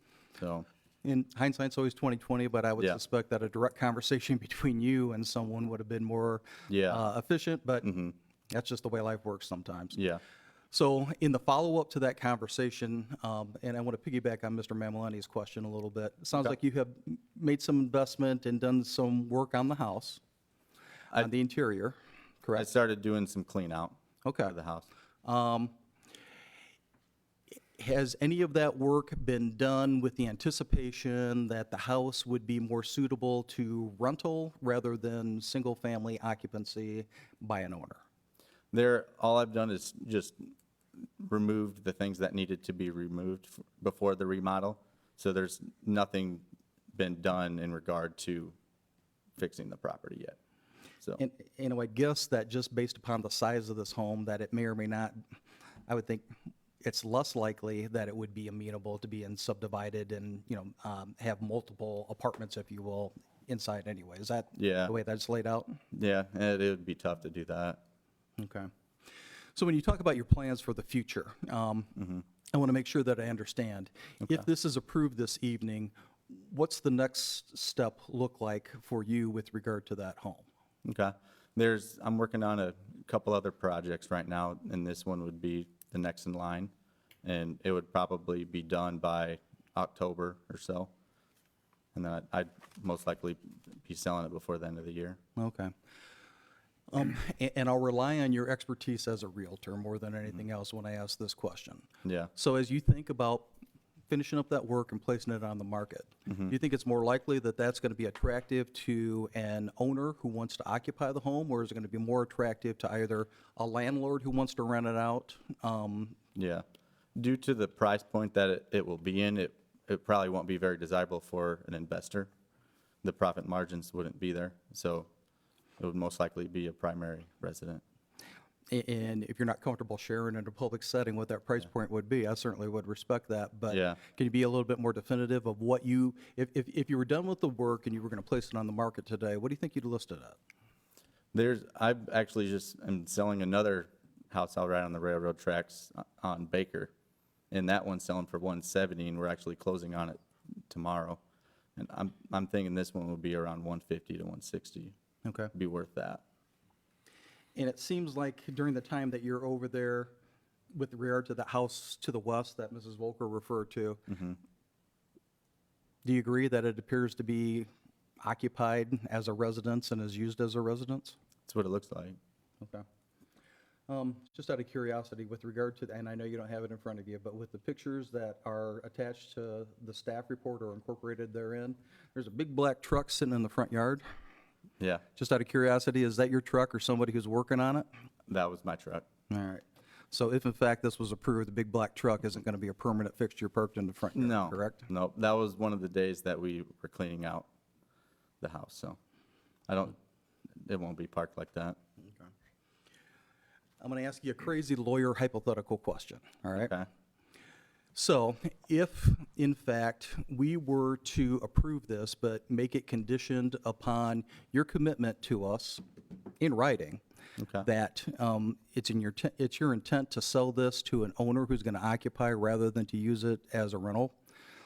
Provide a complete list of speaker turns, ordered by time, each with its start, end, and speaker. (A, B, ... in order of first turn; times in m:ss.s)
0:00.4-0:00.7 A
0:01.0-0:07.9 B
0:06.7-0:07.0 A
0:07.8-0:08.1 A
0:08.5-0:10.0 B
0:10.0-0:10.2 A
0:10.7-0:20.2 B
0:21.2-0:22.7 B
0:22.6-0:24.9 A
0:24.2-0:24.5 B
0:25.2-0:25.7 B
0:27.8-0:38.0 B
0:38.7-0:40.4 A
0:41.2-0:48.6 A
0:49.4-0:50.4 A
0:51.2-0:55.2 B
0:55.9-1:05.8 B
1:04.6-1:04.9 A
1:05.9-1:07.8 A
1:08.4-1:08.7 B
1:09.6-1:20.5 B
1:20.8-1:26.7 A
1:27.2-1:30.9 A
1:32.0-1:35.2 A
1:35.4-1:35.7 B
1:36.9-1:43.5 B
1:42.0-1:42.3 A
1:44.1-1:56.2 B
1:56.4-1:56.6 A
1:57.2-2:02.3 A
2:03.0-2:05.1 A
2:05.8-2:07.8 A
2:08.7-2:20.4 B
2:13.7-2:14.0 A
2:21.3-2:26.9 A
2:27.5-2:30.2 A
2:30.7-2:31.2 A
2:31.8-2:35.0 A
2:35.2-2:35.5 B
2:35.5-2:36.2 A
2:37.6-2:40.2 B
2:40.7-2:44.1 B
2:44.1-2:44.4 A
2:46.0-2:47.7 B
2:48.2-2:51.2 B
2:51.5-2:52.2 A
2:53.9-3:04.0 B
3:05.2-3:07.9 B
3:08.3-3:09.1 A
3:09.3-3:14.8 B
3:14.2-3:17.5 A
3:18.4-3:19.0 A
3:19.7-3:20.0 A
3:20.6-3:21.8 A
3:23.8-3:26.7 B
3:26.6-3:26.9 A
3:28.0-3:35.8 B
3:36.4-3:37.0 B
3:37.4-3:37.7 A
3:37.6-3:44.2 B